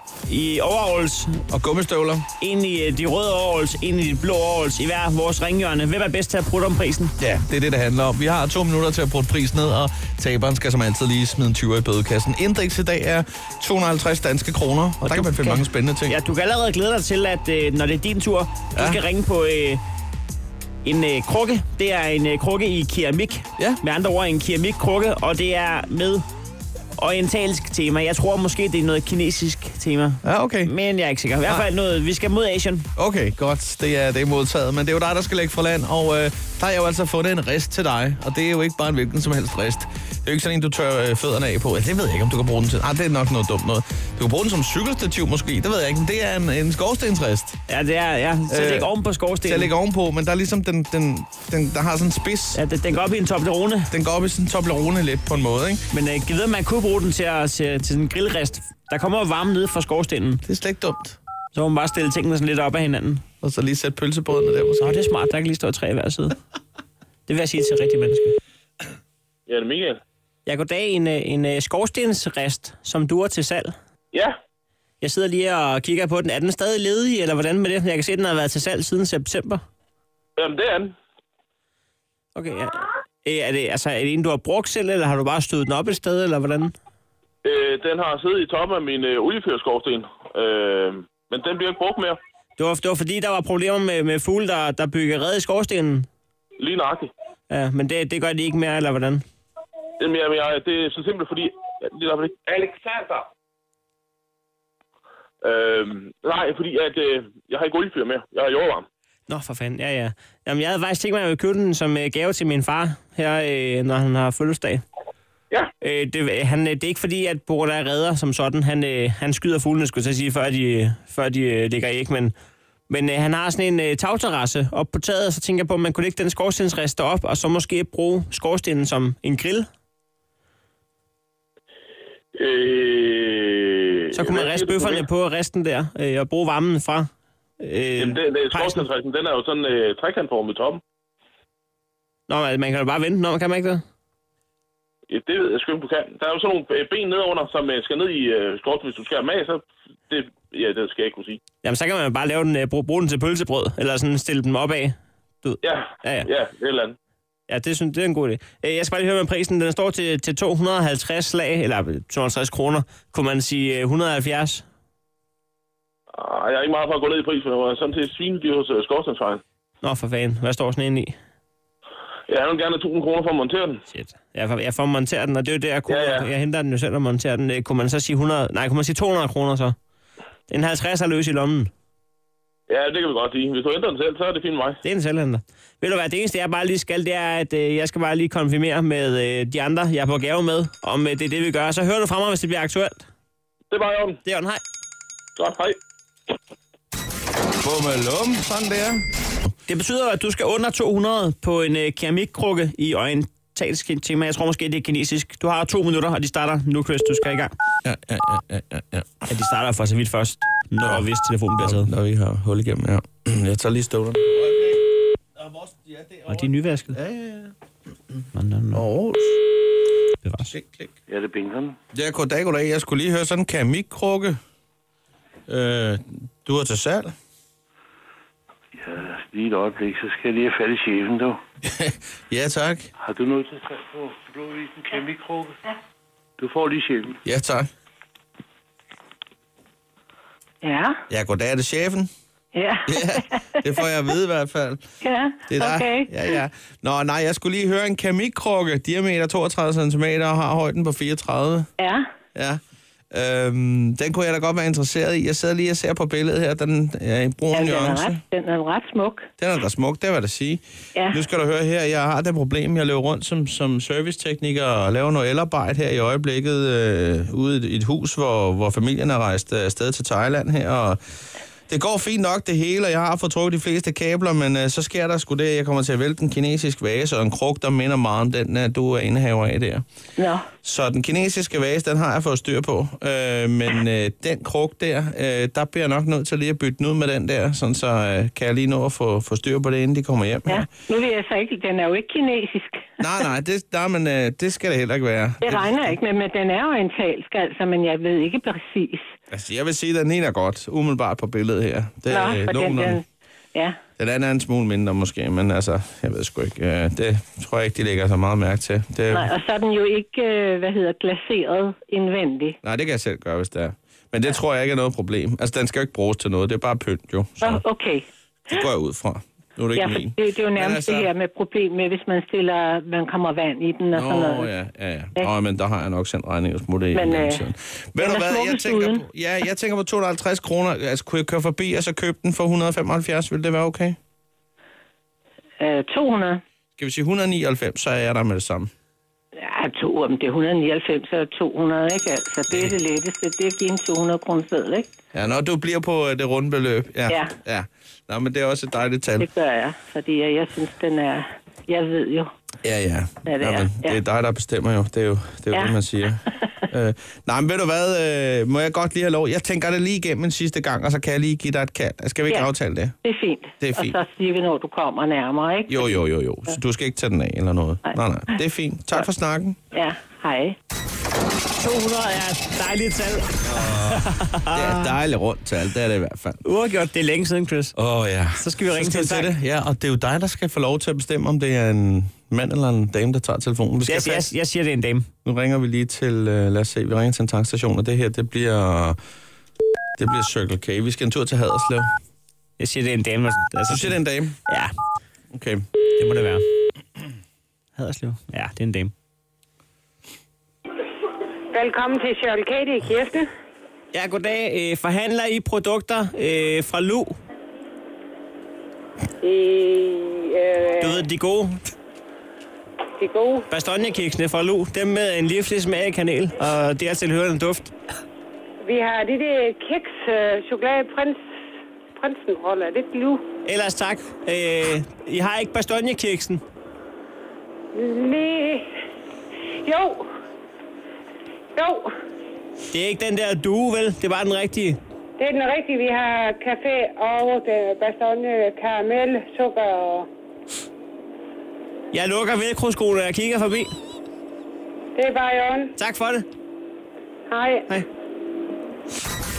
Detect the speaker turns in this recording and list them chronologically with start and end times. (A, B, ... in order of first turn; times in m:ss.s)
0:00.3-0:01.4 A
0:01.5-0:02.2 B
0:02.4-0:07.1 A
0:07.2-0:16.2 B
0:15.0-0:19.8 A
0:18.7-0:19.0 B
0:20.8-0:26.2 A
0:27.0-0:32.8 A
0:30.2-0:30.7 B
0:32.9-0:47.6 B
0:47.7-0:49.7 A
0:48.5-0:48.9 B
0:49.4-0:52.6 B
0:52.5-0:53.9 A
0:53.9-0:55.8 B
0:55.9-1:00.4 A
1:00.4-1:01.2 B
1:01.5-1:03.2 A
1:03.4-1:05.0 B
1:04.8-1:06.4 A
1:07.3-1:08.4 A
1:09.5-1:10.0 C
1:10.4-1:13.7 A
1:15.0-1:19.6 A
1:20.4-1:20.9 C
1:22.3-1:26.7 A
1:27.4-1:32.2 C
1:32.6-1:36.1 A
1:36.6-1:37.1 C
1:37.5-1:39.2 A
1:40.0-1:43.2 C
1:45.4-1:48.9 C
1:49.3-1:54.8 A
1:55.8-2:02.3 A
2:02.9-2:09.6 A
2:12.3-2:15.0 C
2:14.1-2:17.1 A
2:17.6-2:18.8 A
2:18.0-2:20.8 C
2:22.3-2:23.8 A
2:25.1-2:31.4 C
2:31.6-2:36.3 A
2:36.3-2:37.0 C
2:37.5-2:44.6 A
2:46.1-2:49.4 C
2:49.8-2:51.1 A
2:52.3-2:53.8 C
2:53.9-2:59.7 A
3:00.5-3:01.7 A
3:02.7-3:04.8 C
3:04.8-3:13.0 A
3:13.7-3:14.2 C
3:14.2-3:14.6 A
3:15.4-3:15.8 C
3:17.6-3:19.0 B
3:19.7-3:27.5 A
3:27.8-3:29.2 B
3:29.3-3:31.9 A
3:30.8-3:31.0 B
3:31.6-3:34.8 B
3:35.4-3:37.5 B
3:36.3-3:37.0 A
3:38.3-3:38.8 A
3:38.7-3:39.4 B
3:40.2-3:40.5 A
3:40.5-3:40.9 B
3:41.1-3:41.8 D
3:41.9-3:44.4 B
3:45.5-3:47.1 B
3:48.7-3:51.4 D
3:51.7-3:52.9 B
3:53.0-3:55.7 D
3:56.4-3:57.2 D
3:57.2-3:57.7 B
4:00.6-4:01.0 E
4:01.1-4:02.1 B
4:02.5-4:03.5 E
4:02.8-4:04.8 B
4:05.0-4:06.4 E
4:05.5-4:11.7 B
4:11.8-4:12.0 E
4:12.3-4:12.6 B
4:13.1-4:18.2 B
4:17.5-4:19.3 E
4:19.4-4:31.0 B
4:31.7-4:39.8 B
4:40.2-4:40.4 E
4:40.6-4:50.7 B
4:50.5-4:52.9 E
4:53.0-4:56.0 B
4:55.4-4:59.1 E
4:59.3-5:03.0 B
5:02.1-5:03.8 E
5:04.0-5:09.3 B
5:09.1-5:12.6 E
5:12.6-5:17.6 B
5:17.4-5:18.0 E
5:18.5-5:21.1 B
5:19.7-5:24.5 E
5:23.9-5:34.0 B
5:26.9-5:27.4 E
5:28.0-5:29.0 E
5:35.6-5:36.4 E
5:36.8-5:38.7 B
5:39.4-5:44.9 E
5:42.5-5:42.8 B
5:45.1-5:49.3 B
5:49.2-5:52.3 E
5:52.6-6:03.0 B
5:53.2-5:54.0 E
6:03.0-6:06.0 E
6:03.6-6:04.0 B
6:05.7-6:09.6 B
6:09.7-6:10.6 E
6:11.6-6:14.9 A
6:13.5-6:14.0 B
6:14.5-6:16.4 B
6:16.4-6:17.7 A
6:17.8-6:24.3 B
6:18.3-6:19.4 A
6:23.9-6:25.1 A
6:25.2-6:29.0 B
6:30.0-6:31.9 B
6:32.6-6:34.7 A
6:33.7-6:34.3 B
6:35.3-6:35.6 B
6:36.0-6:36.4 A
6:37.8-6:38.9 A
6:41.5-6:43.3 F
6:43.9-6:47.1 A
6:49.2-6:51.0 F
6:50.8-6:51.6 A
6:53.0-6:53.4 F
6:53.5-6:57.7 A
6:58.6-7:01.2 F
7:01.9-7:03.2 F
7:03.4-7:06.4 A
7:07.7-7:08.7 F
7:09.6-7:10.1 F
7:11.6-7:11.9 F
7:12.7-7:14.8 A
7:15.2-7:20.1 F
7:21.9-7:23.7 A
7:24.9-7:25.7 F
7:25.8-7:26.2 A
7:27.3-7:27.7 F